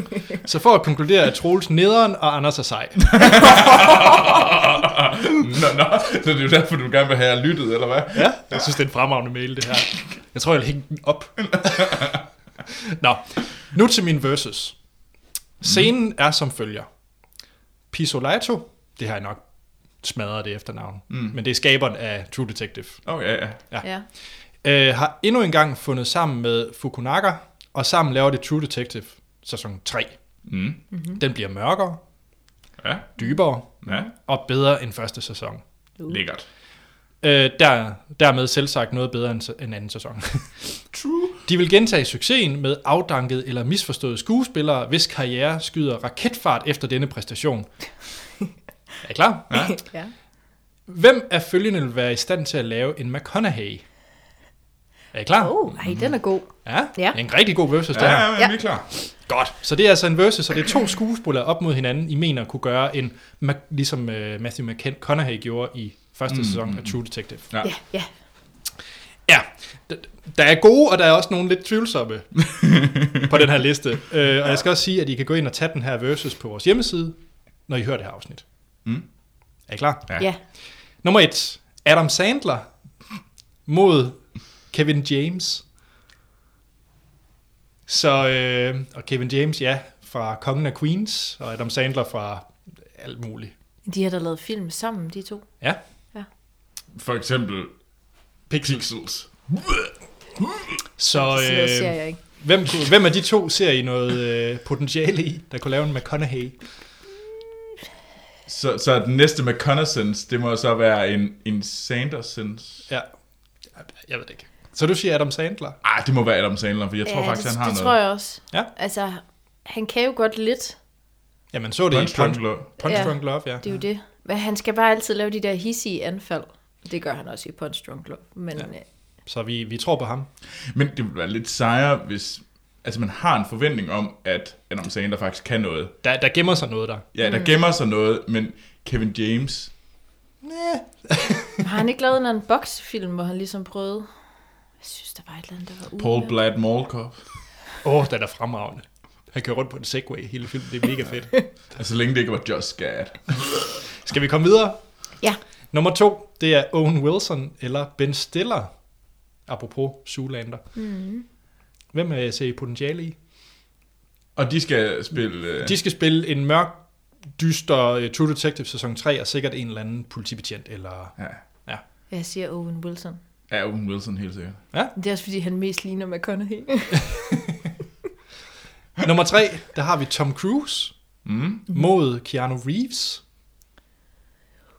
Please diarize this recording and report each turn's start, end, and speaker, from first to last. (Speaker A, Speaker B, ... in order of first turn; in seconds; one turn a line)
Speaker A: 0.3-3.2
Speaker B: 3.1-8.6
Speaker A: 8.1-12.1
Speaker B: 11.6-12.2
Speaker A: 13.0-14.8
Speaker B: 15.6-15.9
Speaker A: 15.6-16.9
Speaker A: 17.9-19.4
Speaker A: 20.0-23.0
Speaker B: 21.1-21.4
Speaker B: 23.0-23.6
Speaker A: 24.6-30.2
Speaker B: 30.4-30.8
Speaker C: 30.9-31.2
Speaker A: 31.1-32.0
Speaker B: 32.8-33.1
Speaker A: 33.2-35.6
Speaker B: 33.8-34.1
Speaker B: 36.1-36.5
Speaker A: 37.2-40.8
Speaker B: 40.9-41.4
Speaker A: 41.5-47.7
Speaker A: 49.0-49.8
Speaker B: 49.5-49.8
Speaker C: 49.5-50.1
Speaker A: 50.9-53.8
Speaker A: 55.1-55.6
Speaker C: 55.4-57.2
Speaker B: 55.8-56.1
Speaker A: 56.6-58.4
Speaker B: 57.9-58.9
Speaker A: 58.9-67.5
Speaker B: 66.3-67.0
Speaker C: 67.6-68.1
Speaker A: 69.3-72.5
Speaker B: 72.6-73.3
Speaker A: 73.2-78.4
Speaker A: 79.7-80.2
Speaker A: 81.0-82.7
Speaker A: 83.7-85.6
Speaker A: 87.9-93.5
Speaker C: 93.8-96.3
Speaker B: 96.9-97.8
Speaker A: 98.5-98.9
Speaker B: 98.6-99.9
Speaker A: 101.0-106.6
Speaker C: 101.1-102.2
Speaker B: 108.5-112.9
Speaker A: 113.7-115.8
Speaker B: 115.8-118.0
Speaker C: 117.0-120.8
Speaker A: 121.5-123.7
Speaker B: 121.9-123.1
Speaker C: 122.8-128.8
Speaker A: 129.2-130.3
Speaker B: 130.7-135.9
Speaker A: 136.0-137.0
Speaker B: 137.1-139.7
Speaker C: 137.2-137.5
Speaker A: 140.4-141.6
Speaker C: 141.6-144.1
Speaker C: 144.8-146.3
Speaker B: 146.0-147.3
Speaker A: 147.8-151.4
Speaker B: 151.7-153.8
Speaker A: 154.0-154.8
Speaker A: 155.7-158.8
Speaker A: 159.4-160.6
Speaker C: 160.8-161.2
Speaker A: 161.9-163.2
Speaker B: 164.3-165.8
Speaker A: 165.6-171.8
Speaker B: 171.2-171.4
Speaker C: 172.1-173.2
Speaker B: 173.5-174.6
Speaker C: 174.9-177.1
Speaker A: 179.0-180.9
Speaker B: 181.2-181.8
Speaker A: 181.7-183.2